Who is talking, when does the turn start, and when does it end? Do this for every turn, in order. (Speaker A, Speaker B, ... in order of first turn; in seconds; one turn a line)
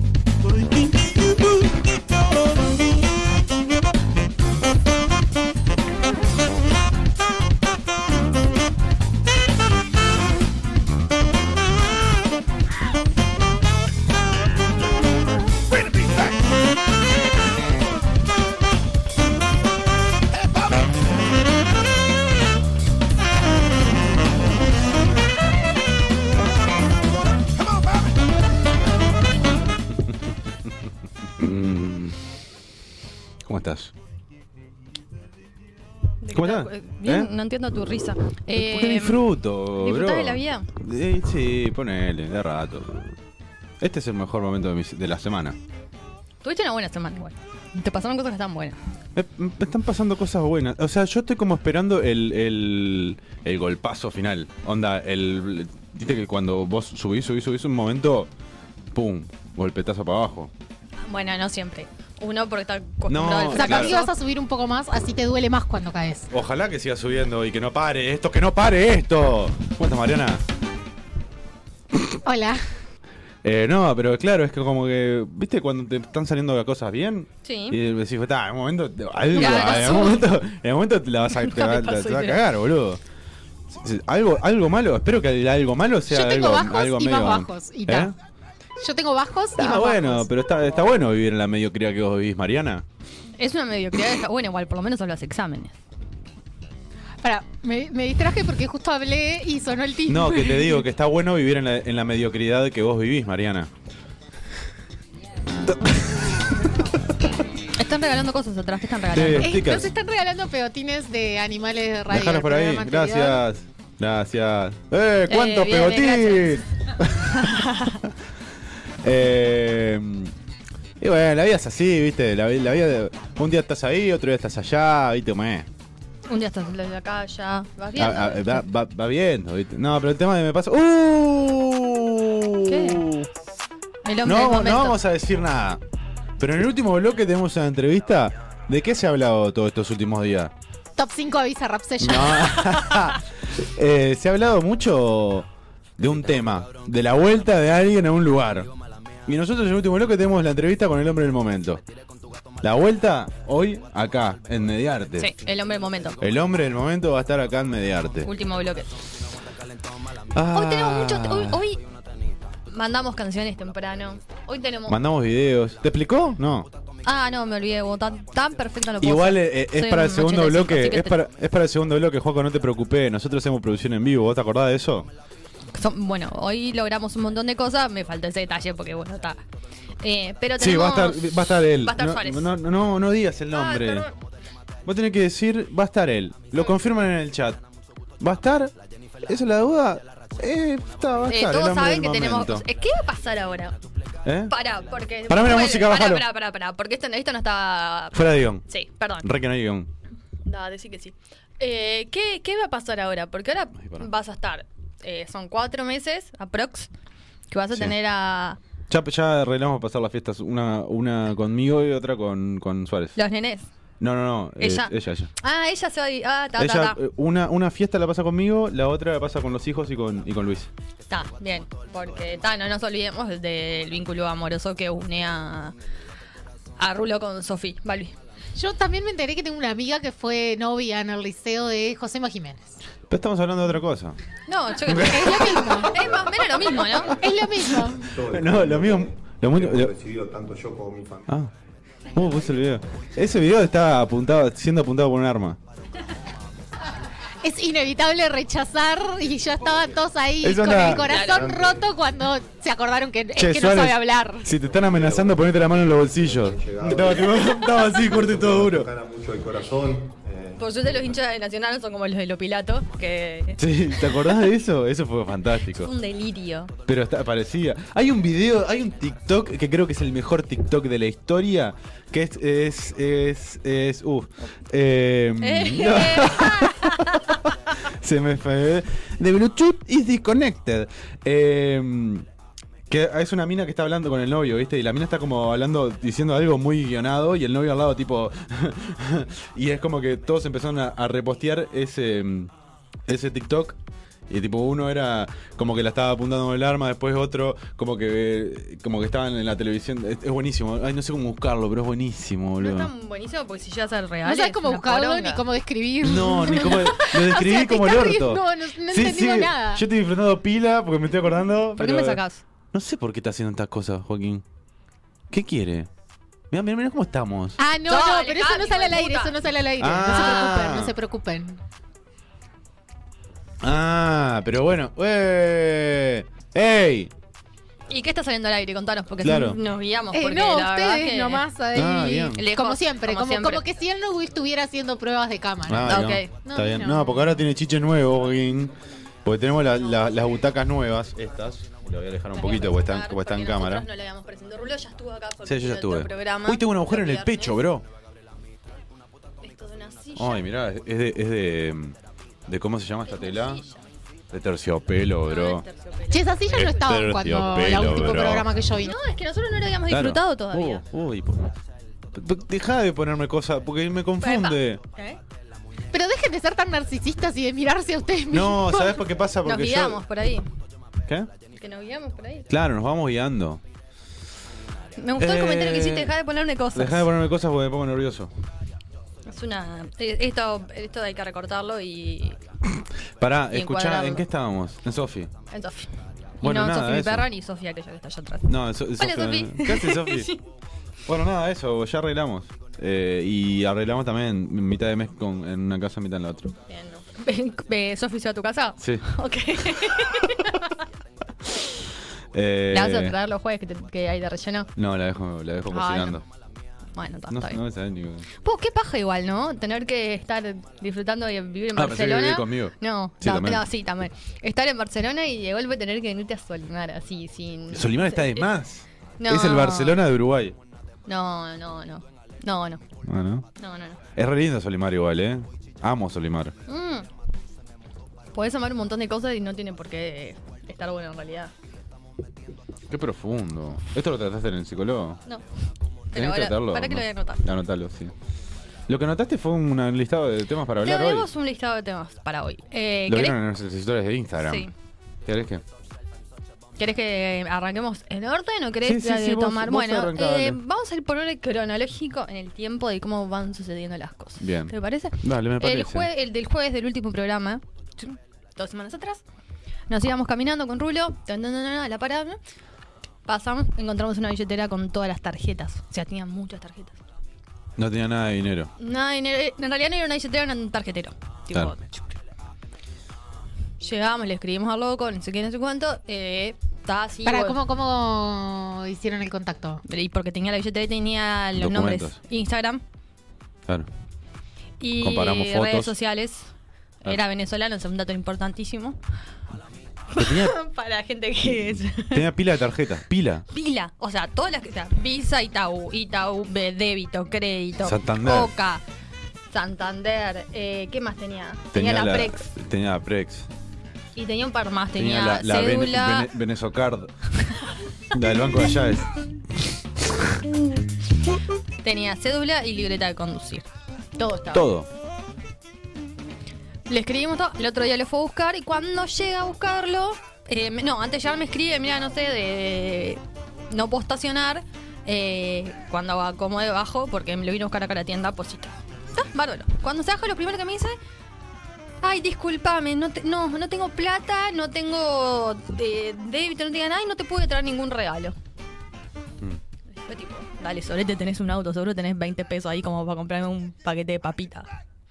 Speaker A: 0.5-2.7
Speaker B: 15.7-16.4
Speaker B: 20.3-20.9
Speaker B: 27.5-28.2
Speaker A: 31.4-32.2
Speaker A: 33.4-33.9
Speaker C: 36.2-39.2
Speaker A: 36.3-37.3
Speaker A: 38.5-43.1
Speaker C: 39.8-40.7
Speaker A: 43.8-45.6
Speaker C: 46.4-48.8
Speaker A: 49.1-58.3
Speaker A: 58.9-60.5
Speaker C: 61.1-64.1
Speaker A: 63.1-64.0
Speaker D: 63.5-66.3
Speaker A: 66.3-70.4
Speaker D: 72.2-72.6
Speaker A: 73.4-83.0
Speaker C: 77.5-77.8
Speaker C: 79.3-80.2
Speaker C: 81.3-82.4
Speaker A: 83.7-88.2
Speaker D: 86.1-88.1
Speaker D: 88.8-90.3
Speaker A: 89.6-92.8
Speaker C: 93.4-95.8
Speaker D: 97.2-100.8
Speaker A: 100.1-103.7
Speaker A: 105.7-106.6
Speaker C: 107.8-109.5
Speaker A: 109.1-109.9
Speaker D: 109.4-113.5
Speaker A: 112.1-117.5
Speaker C: 115.3-116.6
Speaker C: 117.3-118.0
Speaker A: 119.0-120.3
Speaker A: 121.0-125.7
Speaker C: 126.3-128.6
Speaker A: 128.0-133.3
Speaker C: 132.7-133.0
Speaker C: 134.1-135.0
Speaker A: 134.2-135.8
Speaker A: 136.4-140.5
Speaker D: 141.0-142.9
Speaker A: 142.0-148.7
Speaker A: 149.3-151.8
Speaker A: 152.6-155.3
Speaker C: 155.2-156.2
Speaker A: 156.2-158.3
Speaker C: 158.2-158.9
Speaker A: 160.3-161.6
Speaker C: 160.5-161.8
Speaker C: 162.7-165.0
Speaker A: 164.9-166.7
Speaker C: 167.0-171.2
Speaker A: 169.0-175.1
Speaker C: 175.7-179.4
Speaker C: 180.0-182.5
Speaker A: 180.6-184.1
Speaker C: 183.5-184.1
Speaker A: 184.8-187.6
Speaker A: 188.2-192.7
Speaker C: 191.3-193.8
Speaker A: 194.2-194.5
Speaker C: 194.5-199.3
Speaker A: 195.3-196.2
Speaker A: 198.1-198.6
Speaker A: 199.2-199.9
Speaker C: 200.5-206.9
Speaker A: 203.8-204.1
Speaker C: 207.5-208.6
Speaker A: 208.9-213.2
Speaker C: 213.2-213.7
Speaker A: 214.0-215.3
Speaker C: 214.6-217.0
Speaker A: 216.6-220.7
Speaker C: 221.1-225.7
Speaker C: 226.8-228.2
Speaker D: 228.6-232.8
Speaker A: 233.1-234.2
Speaker C: 234.5-237.2
Speaker A: 234.8-235.8
Speaker D: 234.9-235.9
Speaker E: 236.0-236.4
Speaker D: 237.0-238.1
Speaker E: 238.0-241.3
Speaker A: 238.3-239.9
Speaker A: 241.3-241.5
Speaker A: 242.2-245.6
Speaker E: 242.2-242.5
Speaker D: 247.4-254.5
Speaker E: 249.7-250.0
Speaker A: 250.4-251.1
Speaker C: 250.9-251.5
Speaker E: 251.2-251.9
Speaker A: 253.4-258.9
Speaker E: 254.7-260.6
Speaker C: 257.6-257.9
Speaker C: 260.6-264.4
Speaker A: 263.6-265.9
Speaker C: 265.8-266.7
Speaker A: 266.9-277.0
Speaker C: 275.4-277.4
Speaker A: 277.9-282.3
Speaker A: 282.9-292.5
Speaker A: 293.1-293.8
Speaker A: 294.3-302.9
Speaker C: 302.6-305.4
Speaker D: 304.2-309.8
Speaker A: 306.0-312.2
Speaker C: 311.8-312.4
Speaker A: 312.7-314.4
Speaker A: 315.3-315.9
Speaker A: 316.5-317.6
Speaker D: 317.6-321.6
Speaker C: 317.9-319.4
Speaker A: 319.8-320.9
Speaker C: 320.0-320.6
Speaker A: 323.6-327.1
Speaker C: 327.9-331.4
Speaker A: 329.2-329.6
Speaker D: 330.1-335.9
Speaker A: 331.7-332.4
Speaker C: 332.4-333.6
Speaker A: 335.7-338.7
Speaker C: 335.9-337.0
Speaker D: 336.5-337.2
Speaker A: 339.2-343.9
Speaker C: 339.8-340.3
Speaker C: 342.3-347.6
Speaker A: 345.4-347.9
Speaker C: 349.4-350.5
Speaker A: 350.2-351.9
Speaker A: 352.5-353.6
Speaker C: 353.0-353.8
Speaker A: 354.3-355.6
Speaker C: 355.2-357.0
Speaker D: 356.1-358.9
Speaker A: 356.5-358.5
Speaker C: 358.8-360.8
Speaker A: 359.9-361.5
Speaker A: 362.1-364.8
Speaker C: 364.2-365.2
Speaker D: 365.9-369.0
Speaker A: 368.3-370.0
Speaker C: 369.4-370.5
Speaker C: 371.6-372.5
Speaker A: 372.5-373.6
Speaker C: 375.0-377.1
Speaker A: 375.2-376.1
Speaker A: 376.8-378.3
Speaker C: 379.3-382.4
Speaker A: 383.2-385.3
Speaker C: 383.5-384.3
Speaker C: 385.5-385.9
Speaker C: 386.4-390.4
Speaker A: 386.4-387.3
Speaker A: 388.5-390.3
Speaker A: 391.1-396.6
Speaker C: 396.7-400.8
Speaker A: 398.8-399.0
Speaker A: 402.3-403.2
Speaker C: 402.7-404.7
Speaker A: 404.8-406.2
Speaker C: 405.7-406.2
Speaker C: 406.9-407.6
Speaker A: 407.3-408.3
Speaker C: 408.4-418.5
Speaker A: 411.8-413.6
Speaker A: 417.7-420.6
Speaker C: 419.2-420.0
Speaker C: 421.1-422.8
Speaker A: 423.1-423.5
Speaker C: 423.6-424.0
Speaker A: 424.2-426.5
Speaker C: 426.7-427.1
Speaker C: 428.3-431.5
Speaker A: 432.9-435.2
Speaker C: 436.1-437.4
Speaker A: 436.1-438.1
Speaker A: 438.9-441.3
Speaker C: 440.8-443.4
Speaker A: 443.1-444.7
Speaker C: 444.4-444.7
Speaker A: 445.3-445.6
Speaker C: 446.8-459.2
Speaker A: 448.8-450.6
Speaker A: 454.4-456.1
Speaker C: 459.9-462.4
Speaker C: 463.3-467.0
Speaker A: 467.8-468.7
Speaker C: 468.8-472.0
Speaker C: 473.8-477.6
Speaker D: 477.3-479.8
Speaker C: 479.9-482.8
Speaker A: 481.6-482.2
Speaker C: 484.8-486.5
Speaker A: 485.0-485.9
Speaker C: 487.0-489.0
Speaker C: 490.1-492.3
Speaker A: 490.2-490.6
Speaker A: 492.0-493.4
Speaker C: 493.5-498.8
Speaker A: 497.8-498.5
Speaker C: 499.5-502.5
Speaker A: 501.7-503.5
Speaker C: 504.2-506.3
Speaker A: 505.0-507.1
Speaker A: 508.1-509.1
Speaker C: 511.8-513.7
Speaker C: 514.2-514.7
Speaker A: 514.5-514.9
Speaker C: 516.9-531.0
Speaker C: 532.0-538.4
Speaker C: 540.0-544.7